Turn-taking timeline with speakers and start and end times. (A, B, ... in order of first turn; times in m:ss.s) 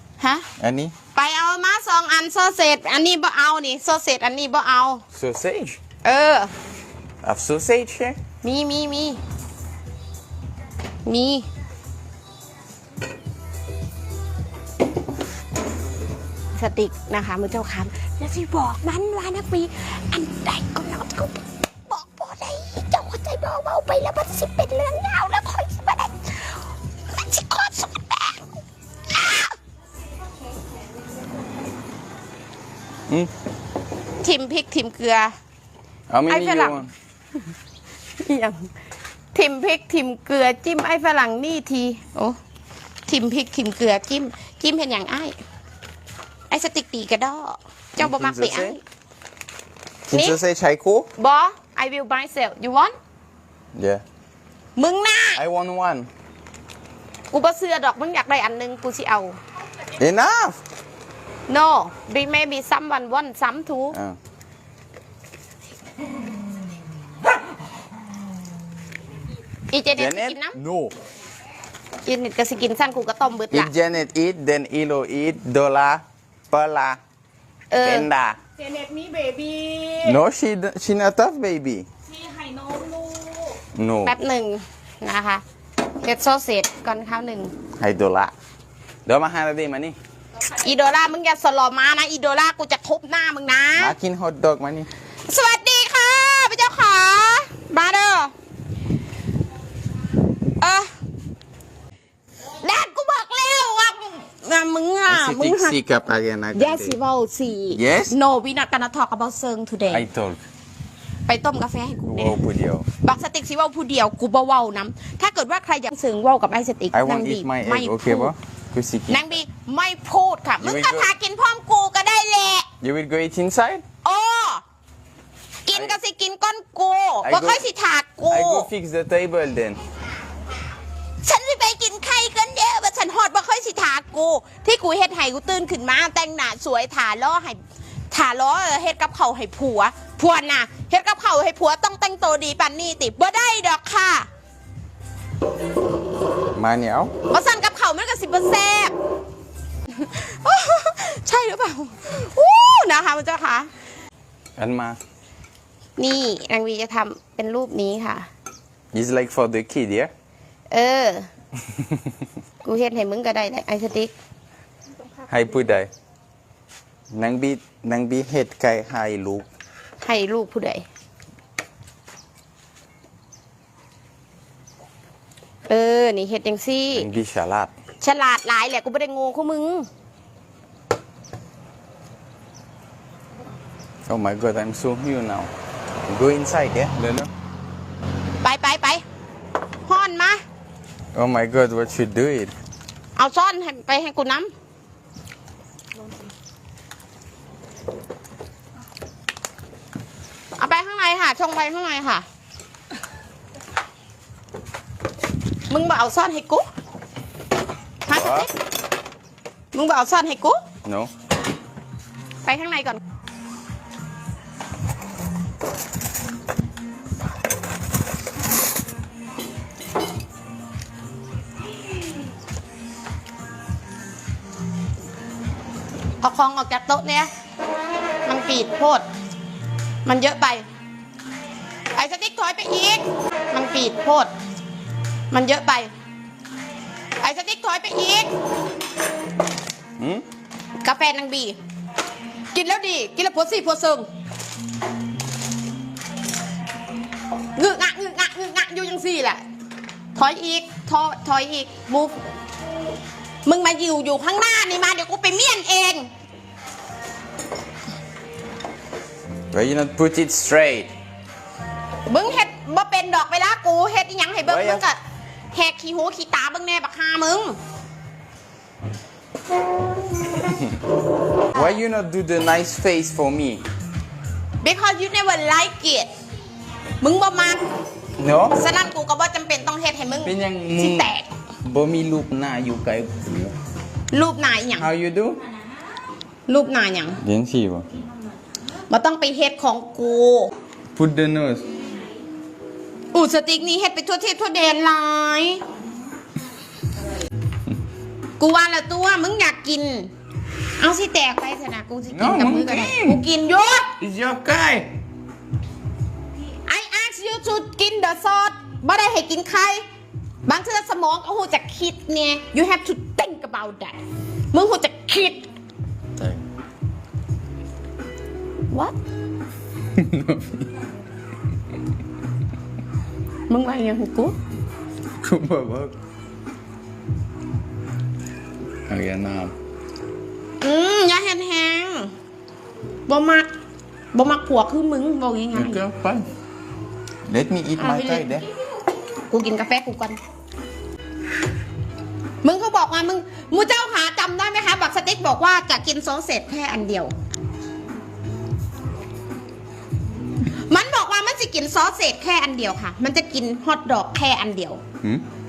0:00.2-0:00.5 A
0:00.6-0:00.9 B
0:01.1-0:05.0 A
0:05.1-0:05.8 B
0:06.0-0:06.5 A
0:07.2-0:08.2 B
0:08.4-0:09.2 A
0:11.0-0:11.4 A
0:16.5-0:28.5 A
0:29.1-0:29.5 A
0:34.2-0:35.4 A
0:36.1-0:36.9 B
0:36.3-0:36.8 A
0:38.2-0:38.7 A
0:39.3-0:42.4 A
0:43.1-0:45.4 A
0:46.5-0:48.8 A
0:48.0-0:48.8 B
0:50.1-0:51.1 B
0:50.1-0:50.4 A
0:51.2-0:52.9 A
0:53.7-0:54.0 B
0:54.8-0:55.4 A
0:55.4-0:56.1 B
0:57.3-0:59.4 A
1:00.0-1:00.6 B
1:01.5-1:04.0 A
1:03.9-1:04.2 B
1:09.7-1:10.6 A
1:09.9-1:10.9 B
1:12.0-1:13.7 A
1:13.5-1:17.0 B
1:17.7-1:18.1 A
1:17.8-1:18.4 B
1:18.6-1:20.2 C
1:20.0-1:21.9 B
1:22.1-1:23.6 C
1:23.7-1:24.2 B
1:24.0-1:25.4 A
1:26.0-1:27.5 A
1:27.8-1:28.3 B
1:29.0-1:30.0 B
1:30.5-1:33.9 A
1:33.8-1:34.9 B
1:35.3-1:38.3 A
1:40.6-1:40.9 A
1:42.6-1:45.8 A
1:45.1-1:47.0 B
1:46.5-1:50.1 A
1:47.7-1:48.1 B
1:49.9-1:50.4 B
1:51.3-1:52.4 A
1:52.0-1:52.9 B
1:53.0-1:58.3 A
1:56.9-1:59.3 B
1:59.1-2:02.7 A
2:00.6-2:01.1 B
2:02.8-2:03.8 B
2:04.0-2:04.6 A
2:05.6-2:08.7 A
2:05.7-2:06.0 B
2:07.2-2:07.6 B
2:08.3-2:09.8 B
2:11.2-2:17.6 A
2:18.1-2:24.3 A
2:26.5-2:27.1 B
2:27.3-2:28.9 A
2:29.9-2:33.7 A
2:34.6-2:35.0 B
2:36.0-2:38.3 A
2:38.9-2:40.1 B
2:40.7-2:41.3 A
2:41.7-2:42.2 B
2:42.6-2:44.1 A
2:45.3-2:45.9 B
2:47.1-2:49.4 B
2:50.0-2:50.8 A
2:55.7-2:57.1 A
2:56.9-2:57.7 B
2:58.0-2:59.9 A
3:04.1-3:05.5 B
3:06.1-3:07.3 B
3:08.4-3:09.0 A
3:09.8-3:10.4 A
3:11.1-3:12.5 B
3:13.2-3:14.5 A
3:20.6-3:22.2 A
3:25.7-3:26.6 A
3:28.0-3:28.5 A
3:28.1-3:28.5 B
3:29.7-3:30.6 A
3:30.8-3:31.1 B
3:32.4-3:33.0 A
3:46.2-3:47.3 A
3:48.2-3:49.0 A
3:50.0-3:50.6 A
3:51.9-3:54.3 A
3:55.3-3:55.9 A
3:57.2-3:58.3 A
4:00.0-4:00.2 B
4:00.8-4:01.6 A
4:02.5-4:04.1 A
4:07.6-4:09.4 A
4:10.2-4:12.2 A
4:13.4-4:16.1 A
4:19.5-4:20.9 B
4:22.1-4:25.0 A
4:24.4-4:24.8 B
4:25.5-4:27.6 A
4:30.3-4:30.8 B
4:31.5-4:33.6 B
4:34.6-4:36.1 A
4:37.0-4:37.6 A
4:38.2-4:38.7 B
4:38.5-4:41.3 A
4:40.2-4:41.1 B
4:41.6-4:43.5 B
4:44.1-4:44.9 A
4:44.8-4:45.4 B
4:46.5-4:47.2 A
4:47.2-4:47.8 B
4:48.9-4:50.5 A
4:50.9-4:51.6 B
4:53.1-4:55.6 A
4:58.4-5:00.1 A
5:00.8-5:03.9 A
5:02.1-5:03.2 B
5:04.0-5:04.9 B
5:06.6-5:09.8 A
5:10.4-5:14.0 A
5:14.5-5:15.5 A
5:16.2-5:16.4 B
5:19.9-5:20.7 B
5:23.5-5:24.3 A
5:25.2-5:25.9 B
5:28.9-5:29.5 B
5:30.6-5:32.1 A
5:33.1-5:33.5 A
5:34.1-5:35.8 A
5:35.5-5:36.2 B
5:37.3-5:38.4 B
5:37.8-5:38.5 A
5:39.3-5:40.2 A
5:42.4-5:47.1 A
5:50.7-5:54.8 A